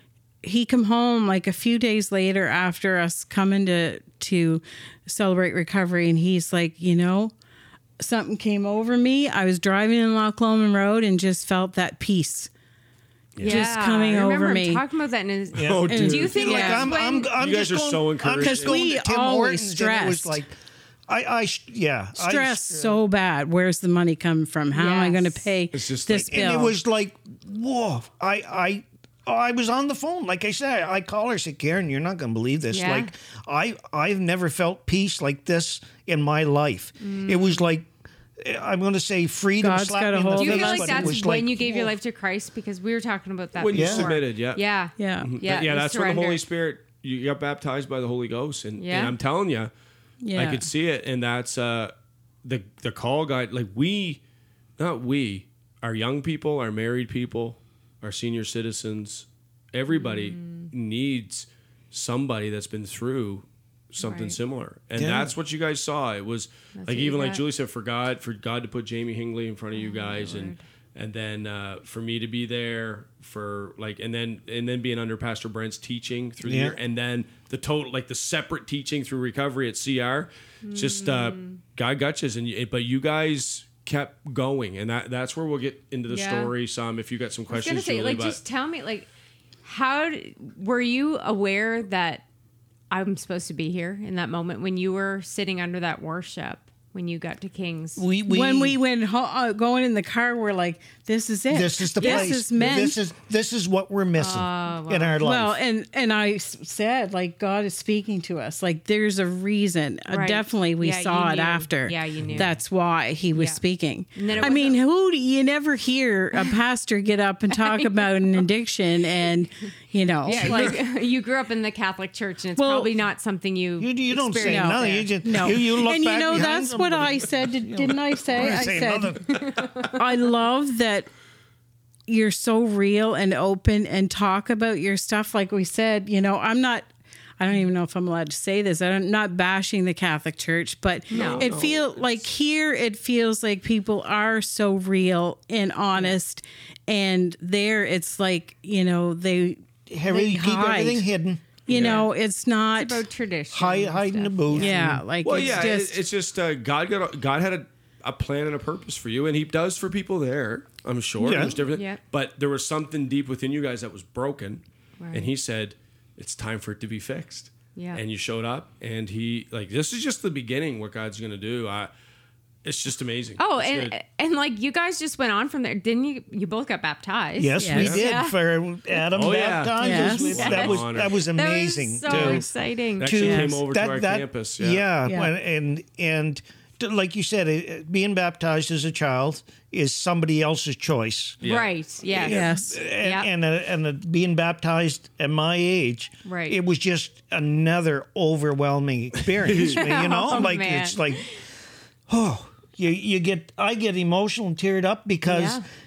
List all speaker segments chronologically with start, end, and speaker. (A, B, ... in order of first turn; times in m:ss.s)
0:00.4-0:07.3 A
0:08.0-0:12.5 A
0:13.3-0:13.7 B
0:13.4-0:17.3 C
0:13.4-0:14.8 A
0:15.5-0:18.8 B
0:15.6-0:20.5 D
0:15.9-0:16.8 A
0:18.4-0:20.4 A
0:21.1-0:23.0 D
0:22.2-0:26.8 A
0:24.7-0:25.4 C
0:25.7-0:26.7 B
0:26.3-0:37.9 D
0:32.7-0:33.1 C
0:37.0-0:37.6 C
0:38.4-0:41.8 D
0:39.6-0:41.2 A
0:40.4-0:46.4 C
0:43.6-0:44.6 B
0:43.7-0:44.1 D
0:45.0-0:45.3 A
0:45.2-0:49.7 B
0:48.8-0:49.2 C
0:50.2-0:50.7 A
0:50.3-0:54.2 B
0:54.8-1:28.4 B
0:59.9-1:00.7 C
1:04.0-1:04.4 C
1:05.0-1:05.3 D
1:06.7-1:07.4 C
1:09.7-1:10.6 C
1:16.4-1:16.8 D
1:20.6-1:21.6 C
1:26.1-1:26.5 C
1:27.5-1:29.1 C
1:29.6-1:32.2 C
1:32.9-1:38.0 C
1:38.0-1:38.8 D
1:38.3-1:43.0 A
1:41.5-1:45.6 D
1:42.0-1:42.4 C
1:44.2-1:45.2 C
1:45.2-2:00.8 A
1:50.1-1:52.5 C
1:53.3-1:53.6 C
1:54.1-1:54.8 C
1:57.5-1:58.1 C
2:00.2-2:05.5 C
2:02.6-2:02.9 A
2:03.8-2:09.5 D
2:04.4-2:11.1 A
2:09.3-2:10.0 C
2:12.1-2:16.9 A
2:17.4-2:31.0 A
2:21.1-2:21.5 C
2:21.1-2:22.2 B
2:29.9-2:31.7 D
2:31.7-2:33.0 A
2:31.7-2:32.0 B
2:31.7-2:32.1 C
2:32.7-2:34.7 C
2:33.5-2:35.0 D
2:34.5-2:36.0 A
2:35.2-2:51.9 B
2:41.2-2:41.6 D
2:41.7-2:42.0 C
2:45.0-2:45.3 C
2:47.7-2:48.0 C
2:52.6-2:53.9 B
2:53.4-2:58.4 C
2:57.4-3:02.5 D
2:57.6-2:58.0 A
2:59.1-3:01.1 B
2:59.8-3:00.3 A
3:00.2-3:03.2 C
3:02.0-3:02.4 B
3:03.0-3:04.8 B
3:03.0-3:11.4 D
3:03.2-3:03.6 A
3:05.0-3:05.3 A
3:11.4-3:11.7 B
3:11.4-3:13.3 C
3:12.1-3:21.2 D
3:12.2-3:12.8 A
3:16.2-3:16.6 C
3:19.5-3:19.8 B
3:19.6-3:21.4 C
3:22.1-3:25.6 D
3:25.3-3:25.6 C